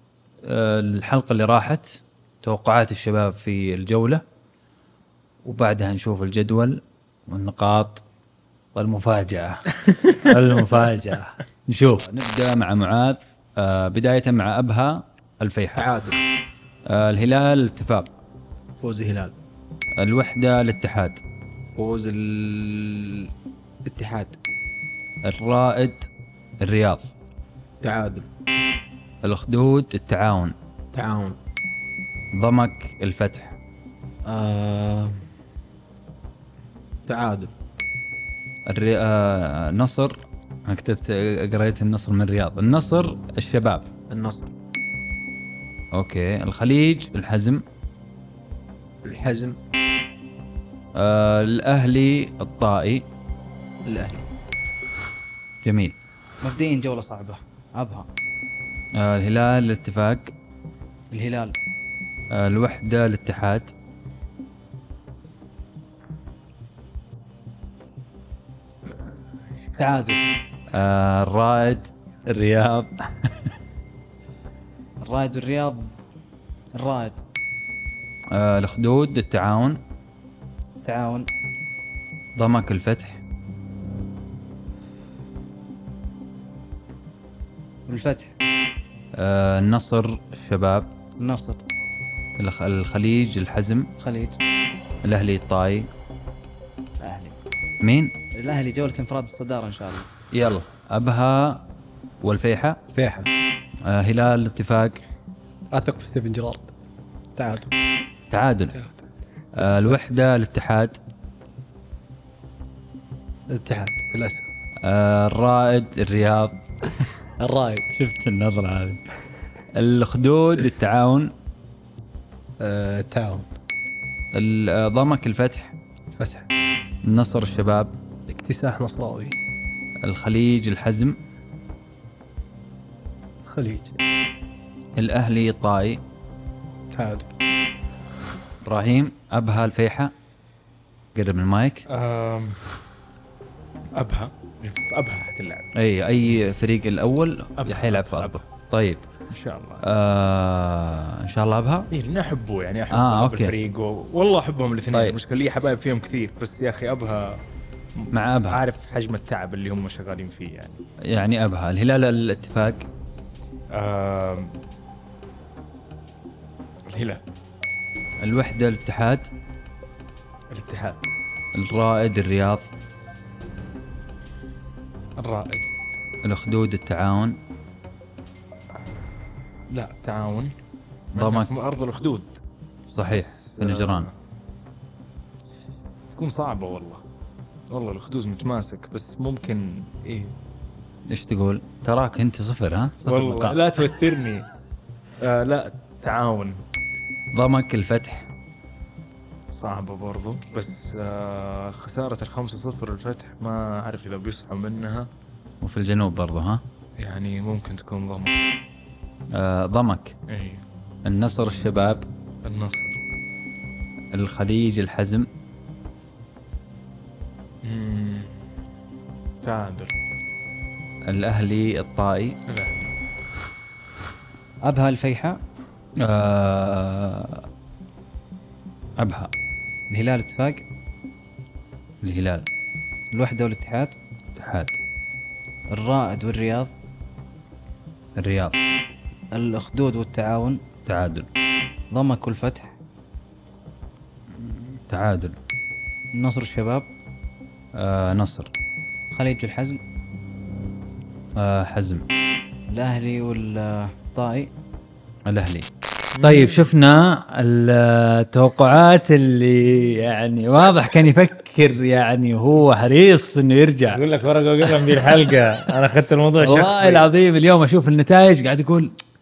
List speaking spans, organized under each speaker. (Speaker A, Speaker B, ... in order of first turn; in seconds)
Speaker A: 0.4-4.2, 5.4-8.0, 8.8-15.9, 16.9-18.1, 20.0-21.2, 25.2-26.1, 26.6-27.1, 29.2-30.6, 32.3-33.5, 38.7-43.9, 45.9-47.6, 50.9-53.1, 55.6-55.9, 58.9-60.3, 62.3-63.7, 70.7-73.5, 78.3-79.8, 82.3-83.2, 89.2-90.9, 92.4-93.9, 95.0-95.9, 97.8-98.1, 100.3-101.7, 102.2-102.8, 103.8-105.0, 108.3-108.8, 109.6-111.0, 114.8-116.6, 118.0-119.0, 119.7-121.3, 124.3-125.8, 127.0-127.9, 130.0-131.2, 135.0-136.0, 138.7-140.1, 141.2-141.8, 145.8-149.0, 149.8-151.9, 152.9-153.6, 154.9-155.2, 158.1-158.6, 161.1-162.9, 168.2-169.3, 171.6-172.7, 176.2-177.4, 181.2-181.5, 182.9-184.1, 191.1-193.6, 197.3-198.3, 205.6-206.6, 209.3-210.2, 211.1-212.1, 214.1-215.3, 221.1-222.4, 226.0-227.4, 229.0-229.3, 232.0-232.4, 234.3-234.8, 238.2-238.6, 240.8-241.3, 244.3-245.3, 247.8-248.5, 251.3-252.1, 255.3-255.7, 256.2-264.0, 266.4-268.9
Speaker B: 15.8-16.2, 18.8-19.4, 21.8-23.3, 23.9-24.4, 27.8-28.2, 30.9-31.4, 34.3-35.2, 37.1-37.5, 44.1-44.5, 49.0-49.6, 53.9-54.2
Speaker C: 56.4-58.1, 61.1-61.6, 69.8-70.2, 75.0-75.9, 76.8-77.2, 80.8-81.3, 87.9-88.3, 91.2-91.6, 94.0-94.4, 97.0-97.4, 98.3-100.1, 224.7-225.4, 229.9-230.7, 233.1-233.9, 235.7-236.7, 239.3-240.6, 241.9-242.7, 246.1-246.9, 249.1-249.8, 252.7-254.5
Speaker D: 102.9-103.3, 105.7-106.7, 107.3-107.7, 108.7-109.0, 113.5-114.5, 117.4-117.9, 122.6-123.5, 126.2-126.5, 128.3-129.4, 133.4-134.0, 136.9-137.3
Speaker E: 141.9-142.6, 143.9-145.7, 147.6-148.4, 149.3-149.8, 151.9-157.4, 157.9-160.8, 163.7-164.5, 166.9-167.2, 170.5-171.1, 175.2-175.7, 179.7-180.5, 181.2-182.4, 183.1-184.1, 186.1-187.0, 187.7-190.3, 193.1-194.4, 195.2-196.6, 199.5-205.1, 207.0-208.4, 210.3-210.6, 212.4-213.0, 217.6-218.4, 219.4-219.9, 222.5-222.9, 256.2-256.7, 263.9-267.1